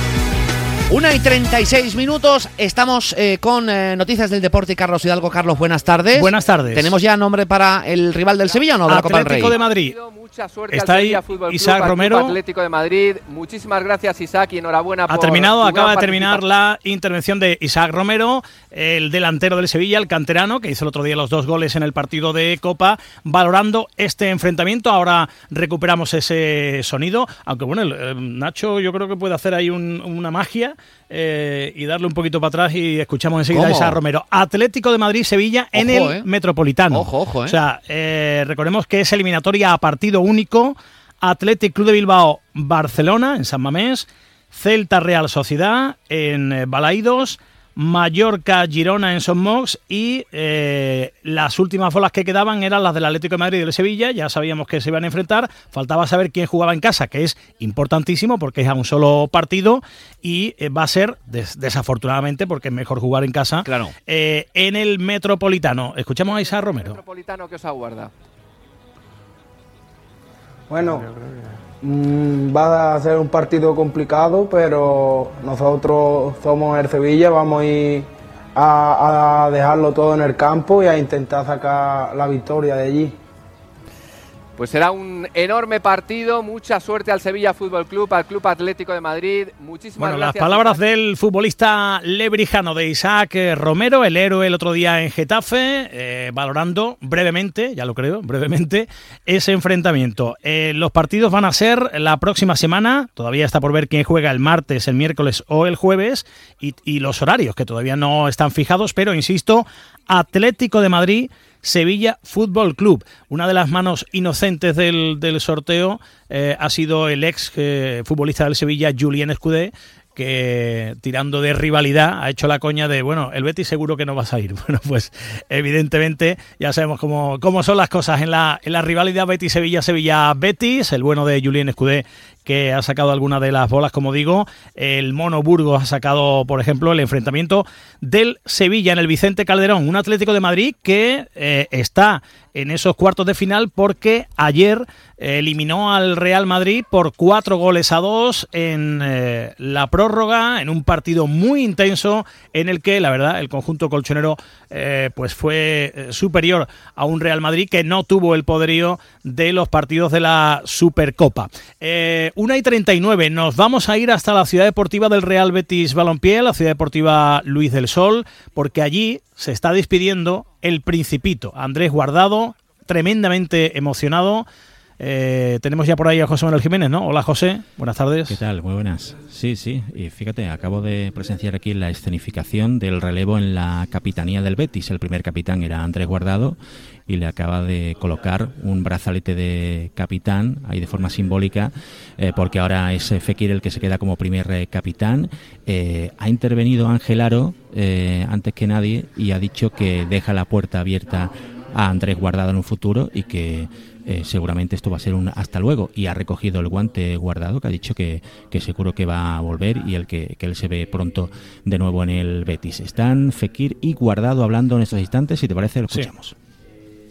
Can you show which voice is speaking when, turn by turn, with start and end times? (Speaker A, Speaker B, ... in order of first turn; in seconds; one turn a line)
Speaker A: 0.9-9.6
Speaker B: 6.1-6.9
Speaker B: 8.9-9.9
Speaker C: 9.6-16.4
Speaker B: 10.7-12.3
Speaker B: 15.1-67.0
Speaker A: 33.5-34.0
Speaker A: 35.7-36.2
Speaker A: 36.9-37.6
Speaker A: 63.6-63.9
Speaker C: 66.8-68.1
Speaker D: 70.7-71.1
Speaker D: 71.8-83.1
Speaker C: 84.6-90.8
Speaker B: 90.0-174.4
Speaker B: 175.0-178.4
Speaker D: 178.3-216.3
Speaker B: 215.9-216.1